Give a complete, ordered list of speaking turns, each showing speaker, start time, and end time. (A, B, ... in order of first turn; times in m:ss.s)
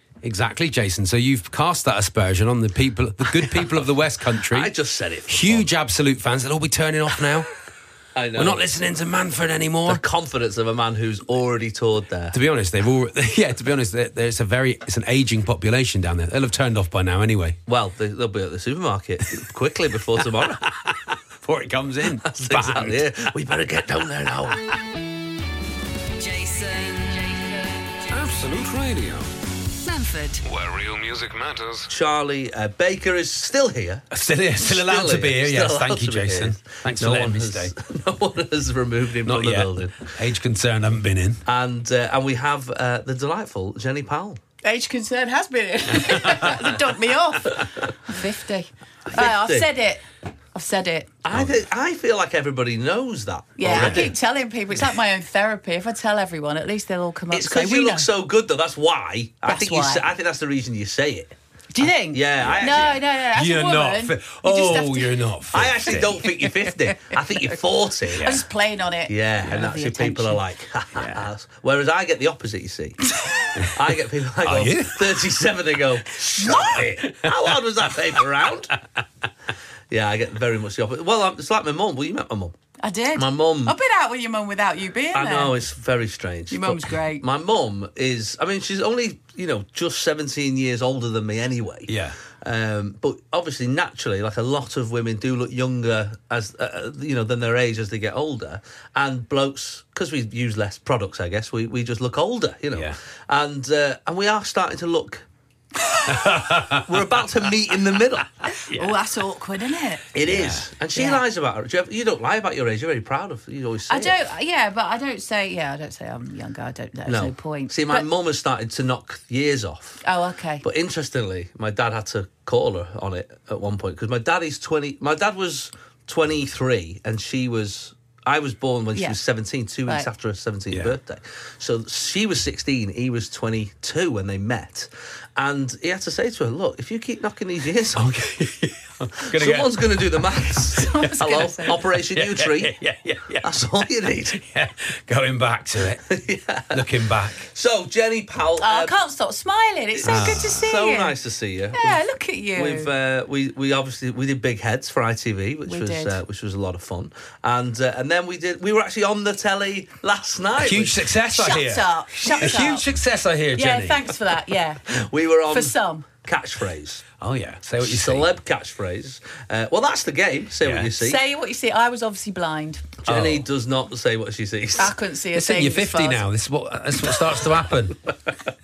0:00.2-0:04.7 A
0:03.4-0:03.8 B
0:04.5-0:05.7 B
0:05.3-0:07.5 A
0:08.2-0:08.7 B
0:08.4-0:10.0 A
0:09.9-0:12.4 B
0:12.3-0:17.6 A
0:17.7-0:20.7 B
0:20.4-0:23.1 A
0:22.2-0:24.7 B
0:26.2-0:28.1 C
0:28.1-0:29.3 D
0:29.8-0:30.4 C
0:30.4-0:31.9 D
0:31.9-0:40.2 B
0:34.1-0:37.7 A
0:39.2-0:41.4 A
0:41.5-0:44.4 B
0:44.6-0:51.1 E
0:46.1-0:46.5 A
0:49.1-0:49.7 B
0:51.2-0:54.1 B
0:53.6-0:58.1 E
0:53.6-0:54.1 A
0:57.3-1:01.4 B
0:59.5-1:00.1 E
1:01.7-1:05.2 E
1:02.1-1:03.0 B
1:02.4-1:06.4 A
1:05.5-1:08.3 B
1:06.9-1:07.2 E
1:08.1-1:08.5 A
1:08.2-1:10.4 E
1:09.1-1:13.1 B
1:11.0-1:11.3 A
1:13.6-1:18.8 B
1:14.4-1:15.2 A
1:16.4-1:16.8 E
1:19.9-1:22.6 B
1:22.8-1:25.6 E
1:23.2-1:23.8 B
1:25.1-1:45.3 B
1:26.5-1:27.2 E
1:31.9-1:32.2 A
1:42.7-1:43.0 A
1:46.1-1:47.1 A
1:46.2-1:48.4 B
1:48.6-1:50.1 E
1:48.6-1:49.0 A
1:50.1-1:54.3 B
1:50.3-1:50.7 A
1:50.9-1:51.2 E
1:53.9-1:58.1 E
1:57.1-2:00.0 B
2:00.0-2:00.6 E
2:00.6-2:18.2 B
2:10.7-2:11.0 A
2:18.0-2:20.3 A
2:19.2-2:22.8 B
2:20.7-2:21.8 E
2:22.1-2:26.0 A
2:23.4-2:24.4 B
2:26.0-2:28.9 B
2:26.7-2:27.5 A
2:28.6-2:31.2 E
2:30.0-2:32.0 B
2:30.0-2:30.8 A
2:31.7-2:32.9 E
2:32.6-2:41.1 B
2:35.7-2:36.2 E
2:40.6-2:44.0 A
2:41.3-2:42.9 E
2:42.2-2:42.8 B
2:43.5-2:44.9 E
2:44.9-2:47.1 B
2:45.5-2:46.1 E
2:47.2-2:48.3 A
2:47.8-2:51.2 B
2:50.6-2:50.9 A
2:51.0-2:53.0 E
2:53.0-2:55.0 B
2:53.1-2:53.5 A
2:54.8-2:56.2 E
2:55.3-2:58.0 A